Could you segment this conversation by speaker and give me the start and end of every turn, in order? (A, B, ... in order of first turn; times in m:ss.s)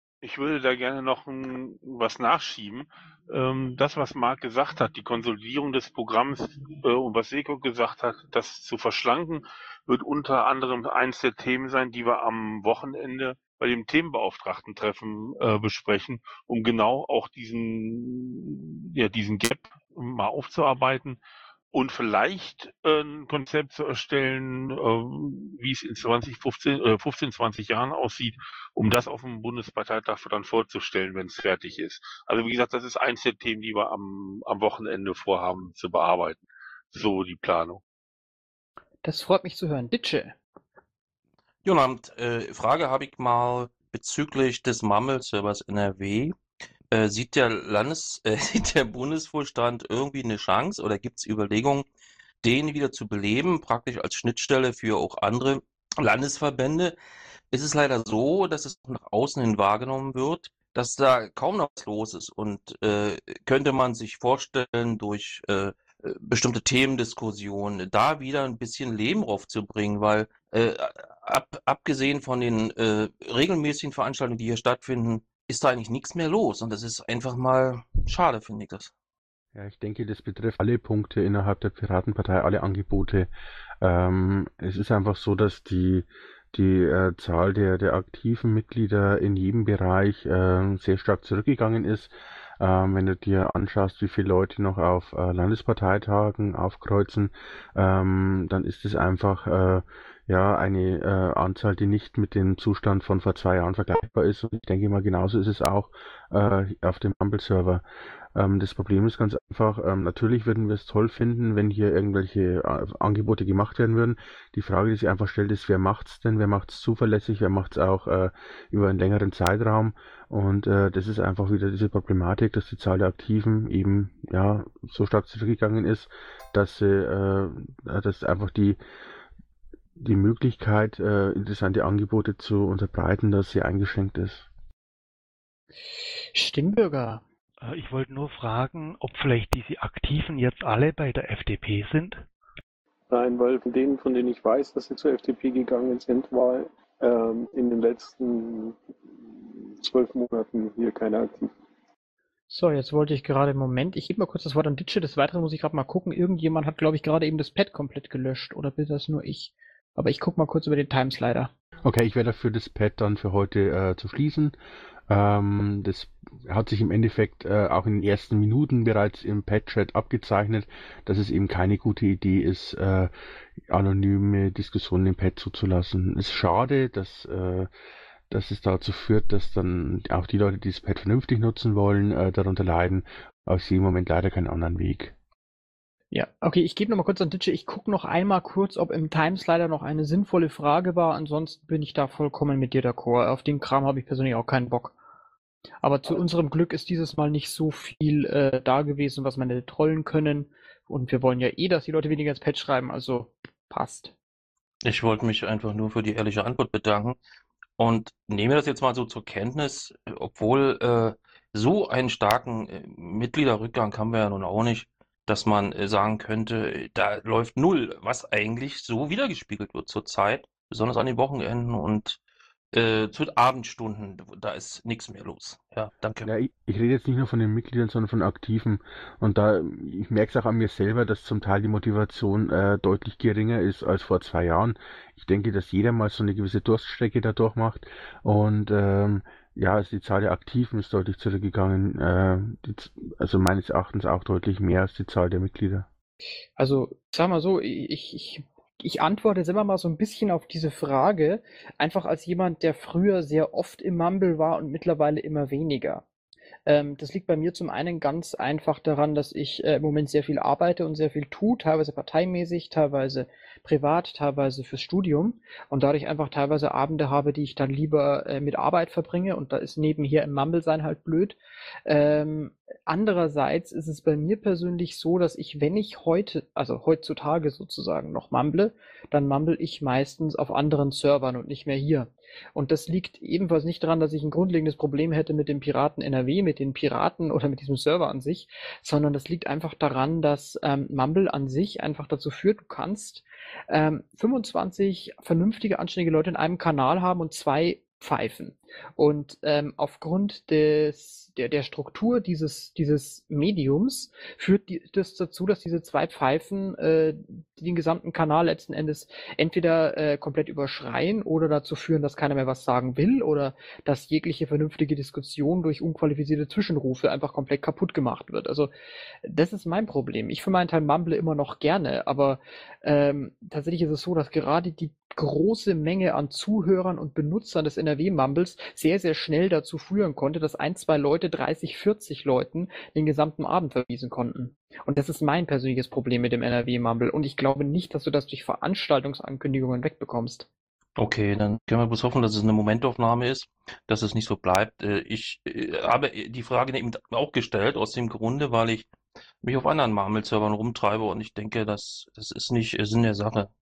0:00.2-0:21.2 A
0:21.7-0:37.8 A
0:39.0-0:40.4 B
0:41.6-0:46.3 C
0:46.9-0:51.9 C
0:52.4-0:57.0 C
0:57.5-1:18.9 C
1:19.5-1:23.3 D
1:23.8-1:47.8 D
1:48.3-2:08.8 D
2:10.0-2:14.5 D
2:16.3-2:17.2 B
2:17.6-2:22.2 E
2:23.1-2:28.8 F
2:29.8-2:31.5 F
2:32.5-2:41.5 B
2:41.8-2:44.5 D
2:45.1-2:53.1 D
2:53.7-2:57.7 D
2:58.3-3:05.1 D
3:06.1-3:15.0 B
3:15.8-3:24.1 B
3:24.8-3:27.2 C
3:27.8-3:42.2 C
3:42.7-3:46.3 C
3:46.2-4:05.9 D
4:06.6-4:16.0 B
4:16.6-5:18.7 B
5:19.2-5:40.5 B
5:41.0-5:48.9 C
5:49.4-5:53.5 C